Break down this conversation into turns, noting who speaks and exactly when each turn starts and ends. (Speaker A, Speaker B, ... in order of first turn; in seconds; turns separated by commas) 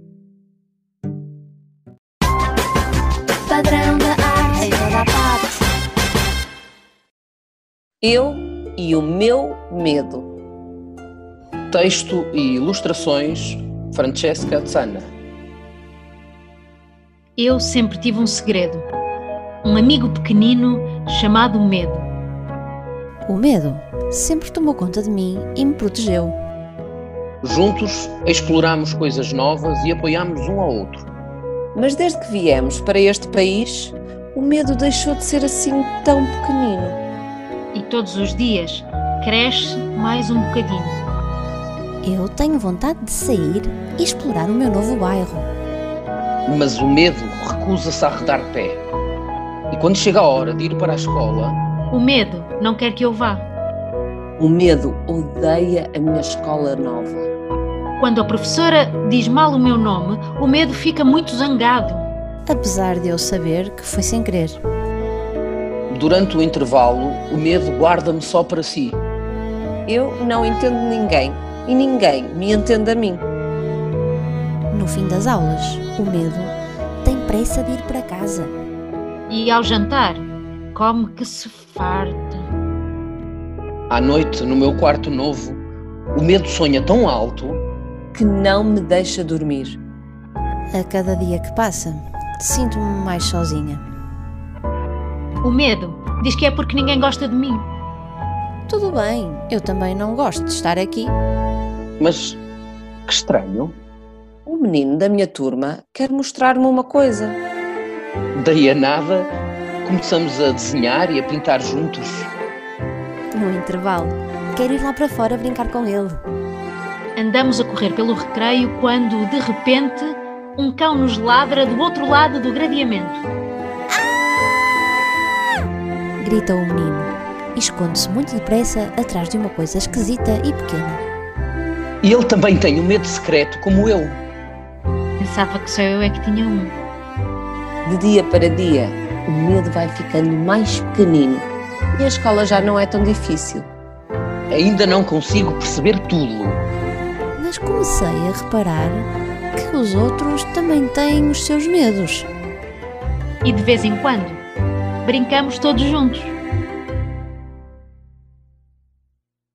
Speaker A: 3.5-5.6, Speaker B: 8.0-10.3, Speaker C: 11.7-15.1, Speaker D: 17.4-18.9, Speaker D: 19.6-22.1, Speaker A: 23.3-26.3, Speaker C: 27.4-31.1, Speaker B: 31.7-37.0, Speaker D: 37.7-41.0, Speaker A: 42.0-45.5, Speaker C: 46.5-48.8, Speaker C: 49.7-51.6, Speaker D: 51.9-53.5, Speaker B: 54.4-57.3, Speaker D: 58.0-62.0, Speaker A: 62.5-64.6, Speaker C: 65.9-69.0, Speaker B: 69.8-73.2, Speaker A: 74.7-78.5, Speaker D: 79.3-82.5, Speaker C: 83.9-85.6, Speaker C: 86.1-87.6, Speaker B: 88.1-89.8, Speaker A: 90.7-93.8, Speaker D: 95.4-97.7, Speaker A: 98.7-101.1, Speaker C: 102.0-102.4, Speaker C: 103.1-103.8, Speaker B: 104.5-107.4, Speaker C: 108.3-109.3, Speaker C: 109.8-112.3, Speaker A: 113.3-116.2, Speaker D: 117.2-123.2, Speaker A: 126.2-131.0, Speaker C: 132.0-134.2, Speaker D: 135.2-136.7, Speaker B: 137.8-143.7, Speaker C: 144.5-146.6, Speaker A: 147.4-152.3, Speaker D: 153.4-154.4, Speaker D: 155.0-156.4